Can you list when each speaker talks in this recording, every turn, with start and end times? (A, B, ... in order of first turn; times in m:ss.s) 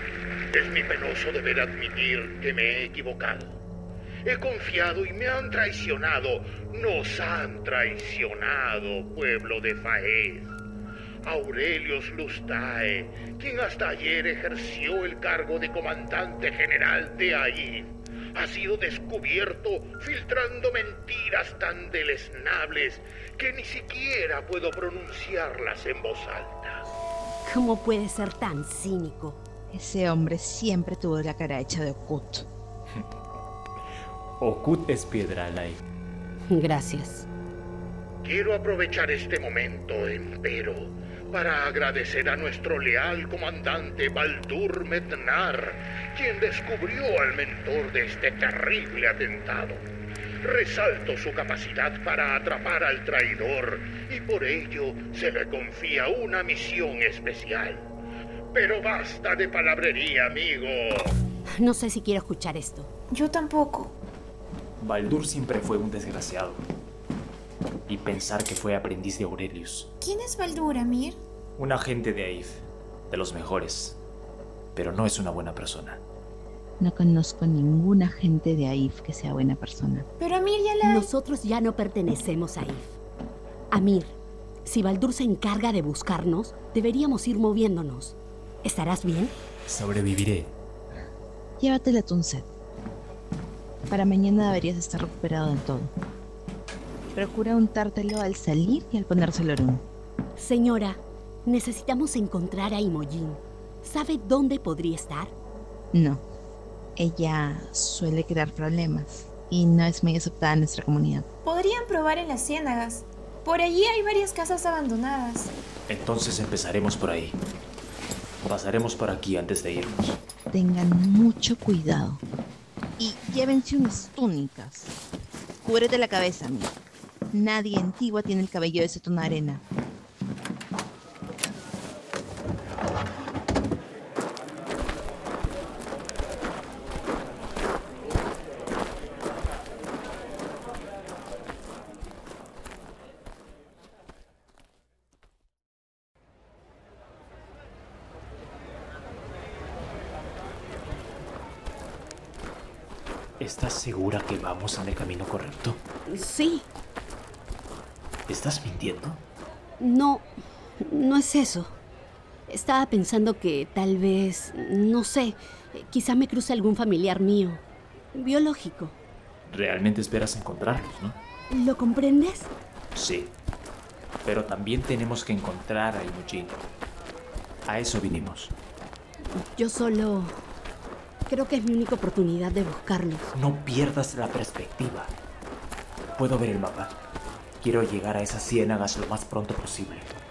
0:00.5-0:03.6 A
0:04.3-0:10.6 A
0:11.2-0:26.8 A
0:27.4-0:29.4 B
0:29.7-0:32.5 C
0:34.4-0:35.8 D
0:36.5-0:37.3 B
0:38.2-0:49.8 A
0:50.4-0:57.9 A
0:58.5-1:01.1 A
1:01.6-1:02.9 B
1:03.1-1:03.9 E
1:04.8-1:06.7 D
1:07.9-1:09.9 D
1:10.0-1:11.2 E
1:11.6-1:14.0 D
1:14.8-1:16.0 D
1:16.8-1:20.1 C
1:20.2-1:21.1 E
1:20.8-1:23.0 B
1:23.7-1:29.3 B
1:29.7-1:30.5 D
1:31.6-1:32.5 C
1:33.9-1:35.9 C
1:37.2-1:39.8 C
1:40.4-1:45.3 B
1:45.9-1:46.2 C
1:47.0-1:51.3 C
1:51.5-1:55.5 E
1:55.9-1:57.4 D
1:58.4-2:00.2 D
2:00.5-2:02.2 C
2:03.0-2:04.9 C
2:05.6-2:06.8 C
2:07.3-2:09.6 C
2:33.4-2:35.8 D
2:36.1-2:36.7 B
2:38.3-2:39.2 D
2:39.8-2:40.3 B
2:40.8-2:41.8 B
2:42.5-2:47.6 B
2:48.1-2:49.0 B
2:49.5-2:51.2 D
2:51.5-2:52.5 B
2:53.0-2:53.4 D
2:54.2-2:56.7 D
2:57.7-2:58.5 D
2:59.3-3:00.4 B
3:01.3-3:03.3 B
3:03.3-3:05.2 D
3:06.2-3:07.0 D
3:07.6-3:10.1 D